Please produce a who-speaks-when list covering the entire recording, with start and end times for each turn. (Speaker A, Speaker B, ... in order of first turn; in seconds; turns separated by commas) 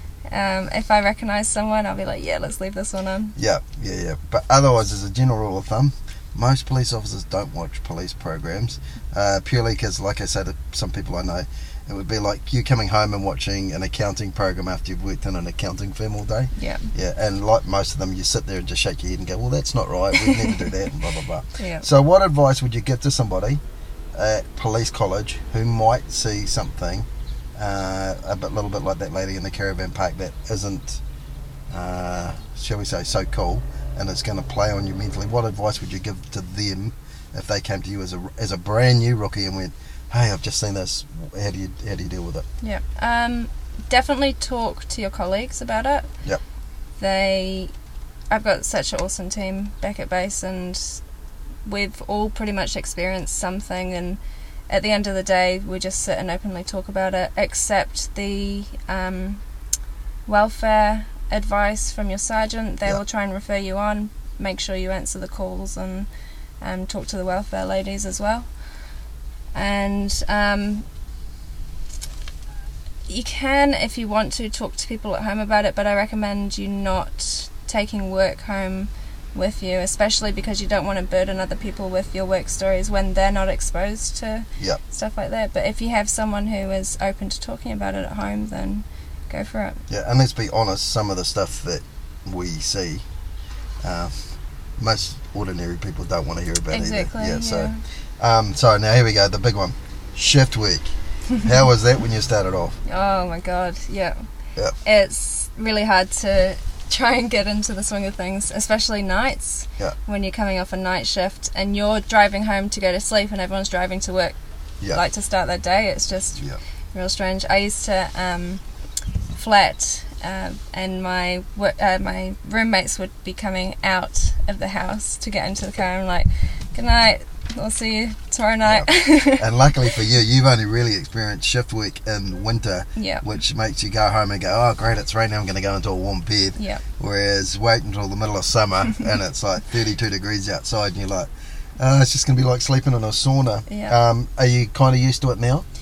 Speaker A: 0.3-3.4, Speaker B: 3.4-23.6, Speaker A: 16.6-16.9, Speaker A: 20.1-20.7, Speaker A: 21.6-21.9, Speaker B: 24.1-31.0, Speaker B: 31.7-42.5, Speaker A: 42.6-46.1, Speaker A: 47.0-47.7, Speaker A: 48.3-51.0, Speaker A: 51.7-54.2, Speaker A: 54.7-59.4, Speaker A: 60.3-66.1, Speaker A: 66.6-68.5, Speaker A: 69.5-70.9, Speaker A: 73.1-89.8, Speaker B: 89.9-93.0, Speaker B: 93.8-94.2, Speaker B: 94.8-100.9, Speaker A: 96.7-97.8, Speaker B: 101.4-102.8, Speaker A: 102.9-104.2, Speaker A: 104.8-114.4, Speaker A: 114.9-116.4, Speaker A: 116.9-118.6, Speaker A: 119.3-129.5, Speaker B: 128.7-141.3, Speaker A: 133.0-133.3, Speaker A: 136.6-136.8, Speaker B: 141.8-145.7, Speaker A: 143.7-144.0